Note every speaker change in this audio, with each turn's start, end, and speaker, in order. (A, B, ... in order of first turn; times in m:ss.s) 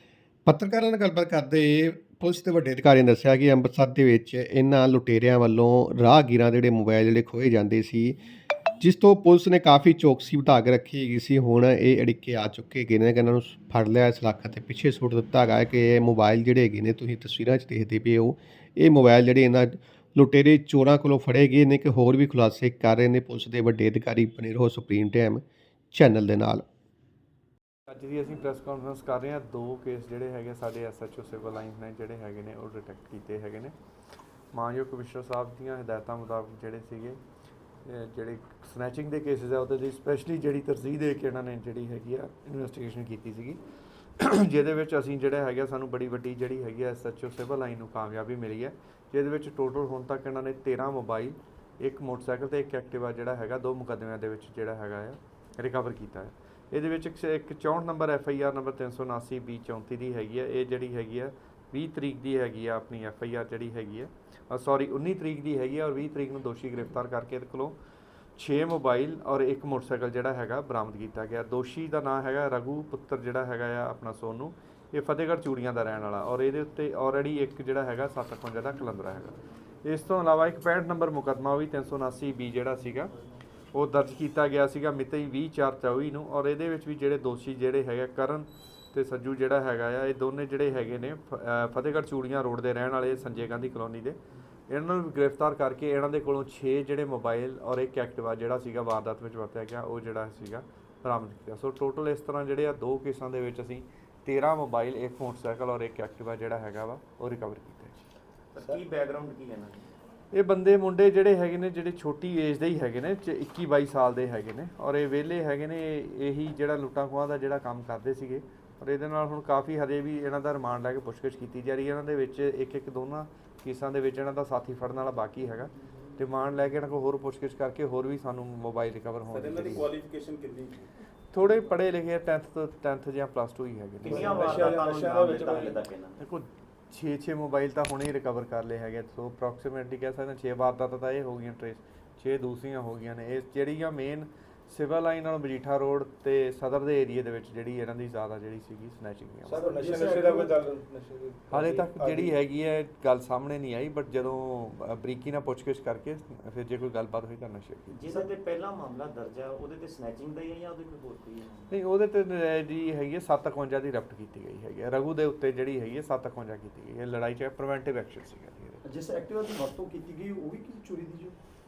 0:00.4-0:08.2 A
0:08.8-0:26.6 A
0:27.9-0:33.7 B
0:34.5-0:37.2 B
0:37.8-0:43.6 B
0:44.2-1:07.8 B
1:08.4-1:23.1 B
1:23.7-1:34.2 B
1:34.7-1:48.0 B
1:48.5-1:49.8 C
1:50.3-2:09.9 B
2:09.3-2:10.9 D
2:09.8-2:10.3 E
2:11.3-2:14.7 B
2:14.0-2:16.2 C
2:14.0-2:15.8 E
2:16.2-2:29.6 B
2:29.5-2:31.2 D
2:29.5-2:30.5 E
2:31.2-2:32.3 E
2:31.5-2:38.0 B
2:37.9-2:41.7 C
2:41.7-2:48.8 B
2:48.8-2:51.3 E